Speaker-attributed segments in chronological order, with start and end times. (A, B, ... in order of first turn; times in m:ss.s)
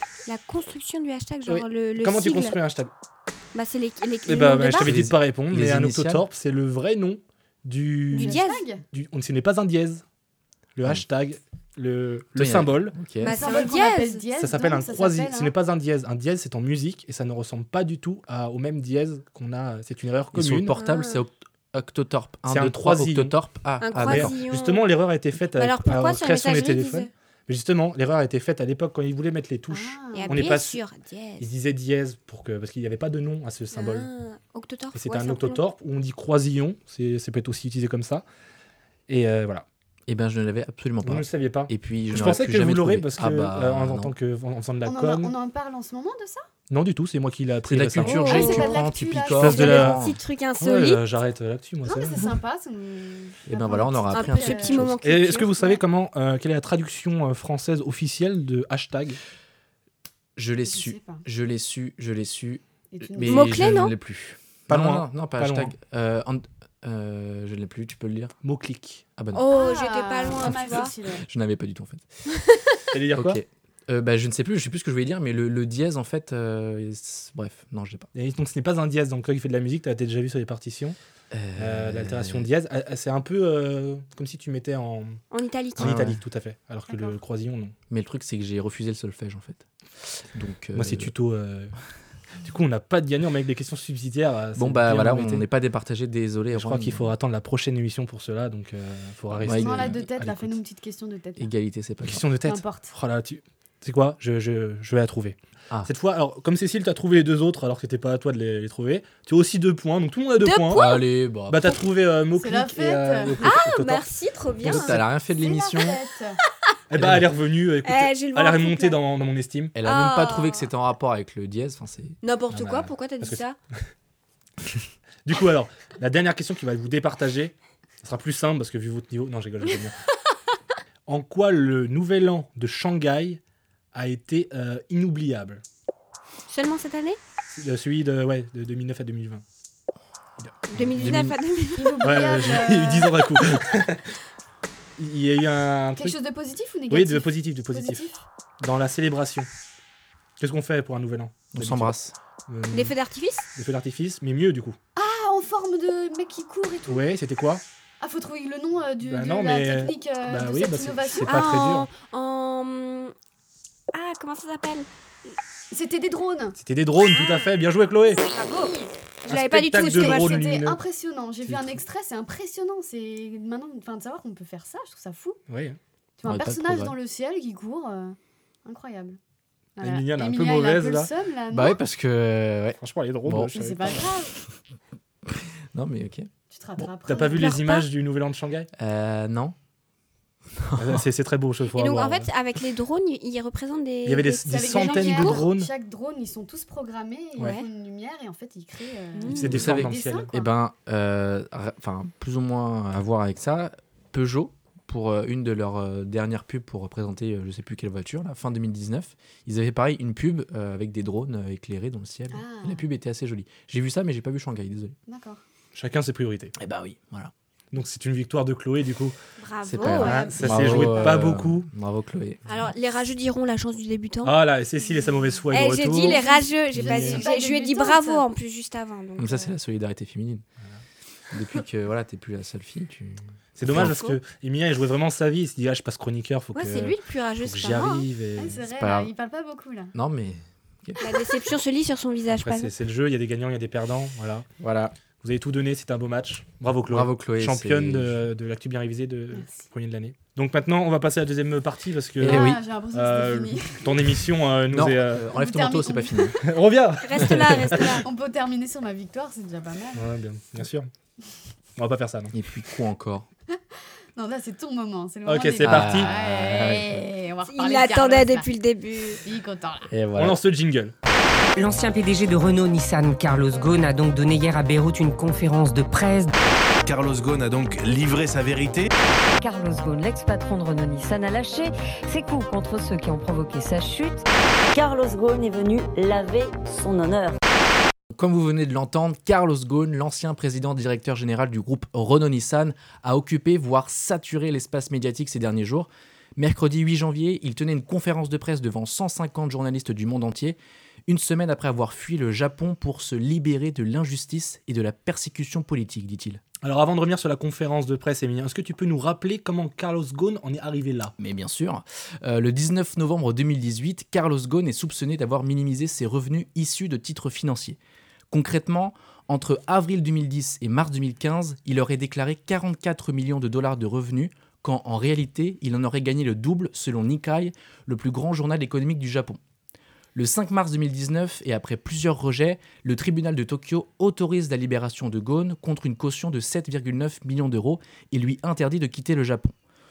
0:00.2-0:02.6 A
0:01.5-0:02.9 B
0:03.5-0:05.0 A
0:04.2-0:10.0 B
0:04.8-0:06.2 C
0:08.1-0:08.6 A
0:08.1-0:08.8 D
0:10.8-0:13.0 B
0:12.3-0:13.4 C
0:13.2-0:14.2 A
0:13.2-0:15.5 D
0:14.3-0:20.7 B
0:20.3-0:24.3 C
0:20.7-0:21.2 A
0:22.5-0:23.4 B
0:23.8-0:25.0 A
0:23.9-0:30.8 B
0:25.5-0:27.1 A
0:29.7-0:30.5 D
0:30.1-0:31.5 A
0:31.4-0:34.1 B
0:33.7-0:35.6 A
0:34.9-0:38.2 B
0:39.1-0:39.6 B
0:40.1-0:44.1 C
0:41.0-0:45.3 B
0:44.8-0:46.4 D
0:46.7-0:48.5 B
0:47.6-0:50.2 C
0:48.0-0:48.8 A
0:48.1-0:49.8 D
0:49.3-0:50.0 B
0:49.4-0:51.0 A
0:50.6-0:52.4 B
0:51.8-0:54.8 D
0:53.4-0:55.0 C
0:54.1-0:55.8 A
0:55.0-0:59.2 B
1:00.4-1:08.3 C
1:00.7-1:01.2 D
1:02.9-1:03.6 D
1:03.2-1:03.9 A
1:04.7-1:05.7 B
1:08.4-1:09.0 B
1:09.2-1:09.4 C
1:09.3-1:10.9 A
1:09.5-1:11.2 D
1:10.3-1:12.1 C
1:12.3-1:12.8 A
1:12.9-1:13.4 B
1:13.1-1:18.1 C
1:18.1-1:21.0 B
1:21.3-1:22.5 C
1:21.6-1:25.2 B
1:25.3-1:26.0 A
1:25.8-1:26.2 C
1:25.8-1:27.7 B
1:26.9-1:27.2 D
1:27.9-1:31.1 C
1:30.7-1:31.7 B
1:32.4-1:35.4 B
1:34.6-1:37.1 C
1:36.5-1:40.5 B
1:39.3-1:40.1 C
1:39.5-1:41.5 D
1:41.4-1:42.2 C
1:42.0-1:54.1 B
1:42.4-1:42.9 D
1:50.4-1:51.1 A
1:50.7-1:51.8 C
1:52.3-1:53.4 D
1:53.4-1:55.0 A
1:54.6-1:55.0 B
1:54.6-1:56.0 C
1:55.3-1:56.4 D
1:56.9-1:59.7 B
1:56.9-1:57.3 C
1:57.8-1:59.0 A
1:59.7-2:02.2 C
1:59.8-2:00.7 A
2:02.2-2:03.6 A
2:02.5-2:03.4 B
2:05.2-2:10.0 B
2:11.0-2:13.4 B
2:13.9-2:15.6 B
2:16.5-2:17.2 A
2:17.5-2:19.4 B
2:20.4-2:21.1 B
2:20.7-2:22.0 A
2:20.8-2:21.4 C
2:21.8-2:23.4 D
2:22.0-2:24.1 B
2:25.0-2:26.2 B
2:26.0-2:28.2 D
2:26.9-2:28.1 B
2:28.6-2:29.5 B
2:30.4-2:31.9 B
2:31.5-2:32.1 C
2:32.5-2:32.9 B
2:32.7-2:33.5 A
2:33.6-2:34.8 B
2:35.0-2:37.0 D
2:36.9-2:37.6 B
2:38.0-2:41.5 D
2:39.0-2:41.9 B
2:41.2-2:43.1 A
2:43.9-2:44.9 A
2:45.7-2:46.6 D
2:46.6-2:48.2 B
2:47.0-2:47.6 A
2:48.1-2:50.5 A
2:49.3-2:50.8 B
2:49.9-2:55.4 D
2:51.4-2:51.8 B
2:55.5-2:55.8 B
2:56.2-2:59.2 D
2:56.2-2:56.9 C
2:59.8-3:01.8 D
2:59.8-3:01.1 B
3:01.5-3:04.0 C
3:02.8-3:04.0 B
3:03.5-3:04.3 D
3:05.2-3:06.3 C
3:06.5-3:07.5 D
3:07.0-3:08.7 B
3:07.2-3:07.9 A
3:08.8-3:09.5 C
3:10.6-3:11.0 C
3:10.8-3:12.3 B
3:11.7-3:15.4 A
3:14.0-3:15.7 B
3:14.5-3:20.3 D
3:19.2-3:19.7 A
3:19.3-3:20.3 B
3:19.5-3:35.0 C
3:32.3-3:32.9 D
3:35.1-3:35.4 D
3:35.7-3:36.5 B
3:36.6-3:37.3 C
3:37.7-3:39.2 B
3:39.4-3:40.4 A
3:39.6-3:42.5 C
3:39.8-3:41.7 B
3:40.6-3:41.2 D
3:42.4-3:44.4 A
3:44.2-3:47.3 B
3:45.5-3:49.5 A
3:45.9-3:48.2 D
3:49.2-3:50.4 C
3:51.3-3:54.1 C
3:53.6-3:58.6 B
3:56.5-3:58.1 A
3:58.4-3:59.9 D
3:58.6-3:59.1 C
3:59.9-4:01.1 C
4:01.0-4:02.7 A
4:02.3-4:04.4 B
4:04.6-4:04.9 C
4:05.2-4:15.3 B
4:06.9-4:08.2 C
4:09.3-4:09.6 D
4:12.2-4:12.6 C
4:12.2-4:14.2 D
4:14.7-4:16.4 C
4:15.3-4:16.4 D
4:16.4-4:18.0 B
4:17.0-4:18.0 A
4:18.0-4:20.1 D
4:19.9-4:20.9 B
4:21.8-4:22.3 B
4:22.3-4:23.3 C
4:24.1-4:28.5 D
4:25.2-4:26.1 B
4:25.6-4:27.1 C
4:27.4-4:29.2 A
4:29.2-4:29.9 D
4:29.9-4:30.4 C
4:30.2-4:30.9 B
4:31.6-4:36.3 E
4:36.8-4:38.9 F
4:39.4-4:44.2 G
4:44.7-4:47.4 H
4:48.1-5:06.4 C
5:06.6-5:11.1 B
5:11.2-5:17.8 C
5:18.3-5:29.4 C
5:30.1-5:39.5 C